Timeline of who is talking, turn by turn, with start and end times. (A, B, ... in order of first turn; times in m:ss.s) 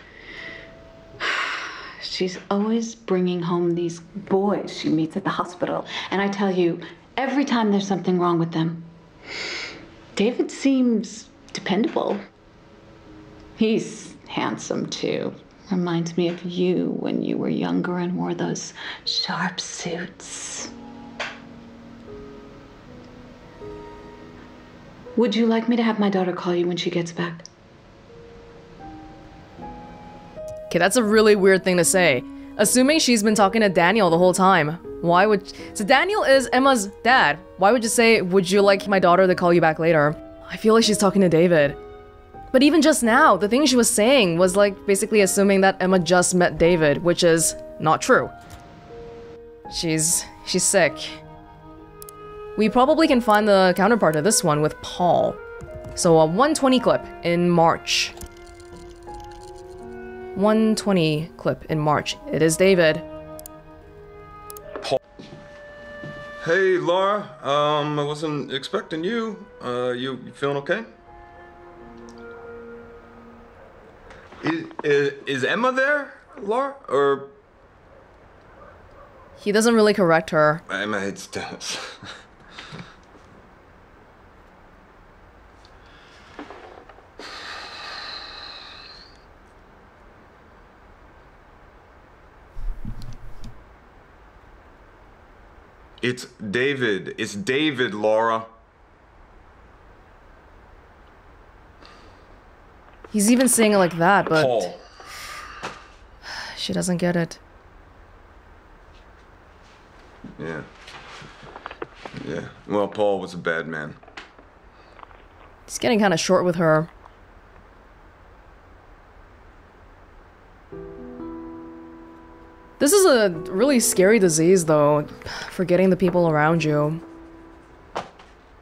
0:01.2-0:08.9 A
0:10.2-0:12.2 A
0:13.6-0:20.7 A
0:25.2-0:27.4 A
0:30.7-0:41.8 B
0:42.5-0:48.3 B
0:49.7-0:51.2 B
0:52.6-0:55.4 B
0:56.0-0:58.2 B
1:00.4-1:03.0 B
1:06.4-1:10.9 C
1:14.4-1:17.4 C
1:19.4-1:20.6 B
1:20.7-1:22.1 C
1:36.0-1:38.5 C
1:43.1-1:44.8 B
1:44.3-1:44.8 C
1:46.4-1:47.4 B
1:50.4-1:50.7 C
1:52.2-1:54.0 C
1:55.7-1:56.9 B
2:02.8-2:07.0 B